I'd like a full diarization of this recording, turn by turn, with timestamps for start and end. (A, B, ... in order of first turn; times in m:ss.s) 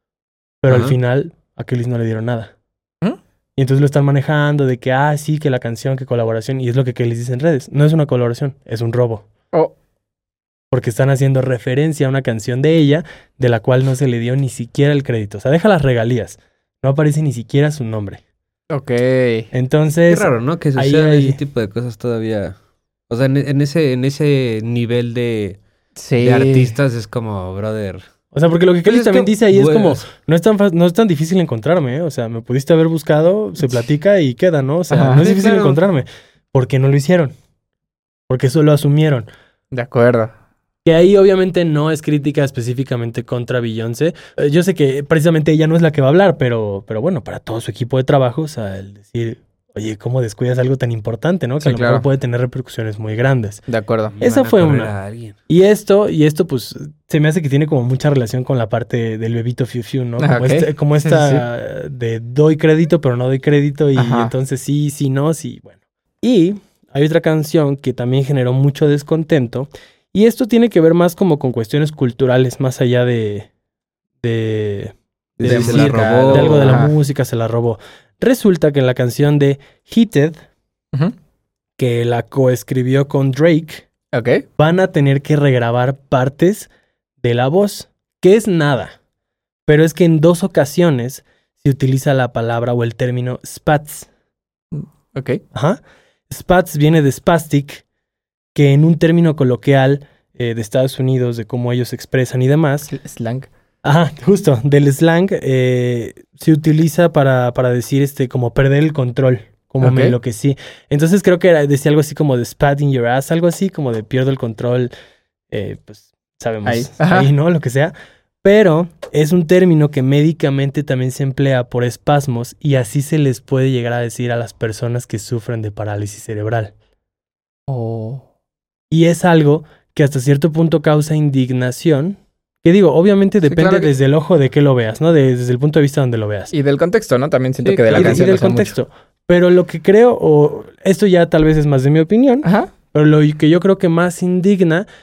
0:00.6-0:02.5 A
0:00.7-0:00.9 B
0:03.6-0:09.3 A
0:10.7-0:18.2 A
0:18.7-0:19.5 C
0:19.5-0:21.4 A
0:20.1-0:22.5 B
0:23.1-0:25.6 B
0:26.0-0:26.7 C
0:26.2-0:28.0 B
0:28.3-0:37.3 A
0:28.8-0:30.0 B
0:34.9-0:35.3 C
0:35.0-0:35.8 B
0:38.3-0:39.3 A
0:39.7-0:40.3 C
0:40.8-0:53.6 A
0:51.6-0:52.0 C
0:53.7-0:54.2 C
0:54.1-0:55.3 B
0:54.2-0:54.9 A
0:55.5-1:13.5 A
1:00.2-1:01.4 C
1:04.0-1:04.3 C
1:14.2-1:20.4 A
1:15.4-1:16.8 B
1:15.4-1:16.9 C
1:21.8-1:23.8 A
1:24.1-1:24.4 C
1:24.6-1:26.7 A
1:27.2-1:28.9 A
1:29.7-1:34.1 A
1:34.7-1:35.4 C
1:35.5-1:35.8 A
1:36.3-1:37.8 A
1:38.5-1:42.9 A
1:42.9-1:43.5 C
1:43.8-1:54.9 A
1:49.8-1:50.2 C
1:55.5-2:06.7 A
1:56.6-1:57.3 C
2:07.7-2:08.2 C
2:08.9-2:16.5 A
2:13.4-2:13.9 C
2:16.5-2:18.7 C
2:17.6-2:18.3 B
2:17.9-2:24.8 A
2:22.4-2:22.7 C